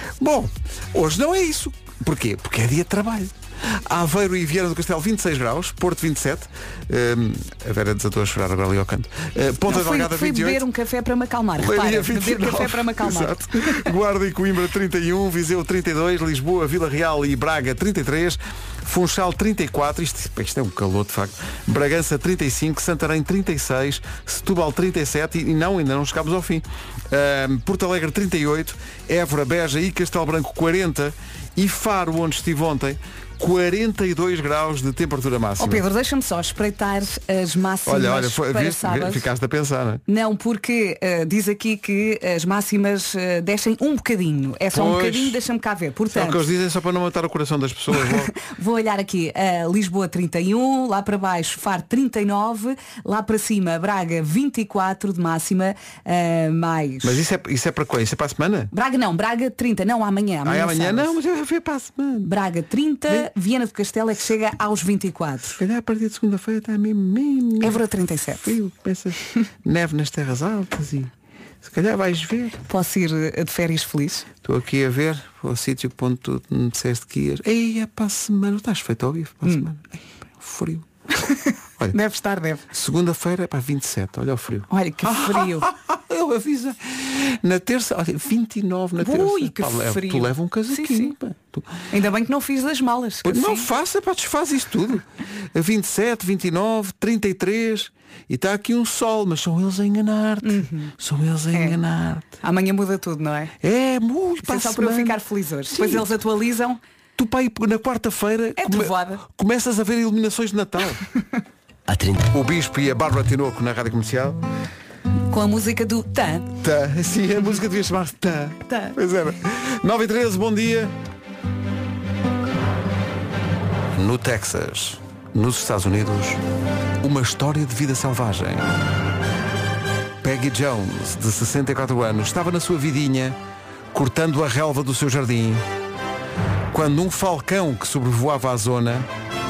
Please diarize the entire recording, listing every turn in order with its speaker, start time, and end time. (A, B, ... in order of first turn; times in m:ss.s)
0:00.2-0:10.6 A
0:09.7-0:13.9 B
0:11.6-0:35.8 A
0:35.6-0:39.2 B
0:37.8-0:40.0 A
0:40.1-0:46.4 B
0:44.7-0:45.4 A
0:46.1-0:48.3 A
0:47.9-0:57.2 B
0:57.0-0:58.7 A
0:58.7-1:01.1 B
1:00.4-1:02.3 A
1:02.2-1:05.6 B
1:05.6-1:11.1 A
1:07.6-1:08.6 B
1:11.6-1:12.6 A
1:12.7-1:14.2 B
1:14.4-1:20.9 A
1:21.3-1:22.6 B
1:22.7-1:31.7 A
1:24.7-1:25.7 B
1:29.0-1:31.1 B
1:31.9-1:33.7 B
1:33.2-1:42.3 A
1:40.4-1:40.9 B
1:42.4-1:43.5 B
1:43.6-1:45.2 A
1:44.4-1:46.8 B
1:47.2-1:51.0 A
1:48.6-1:49.2 B
1:52.3-1:54.4 A
1:55.3-1:56.5 B
1:56.6-2:00.9 A
1:58.7-1:58.9 B
2:03.9-2:06.4 A
2:07.0-2:08.7 A
2:10.2-2:13.4 A
2:13.9-2:15.6 A
2:16.7-2:19.1 A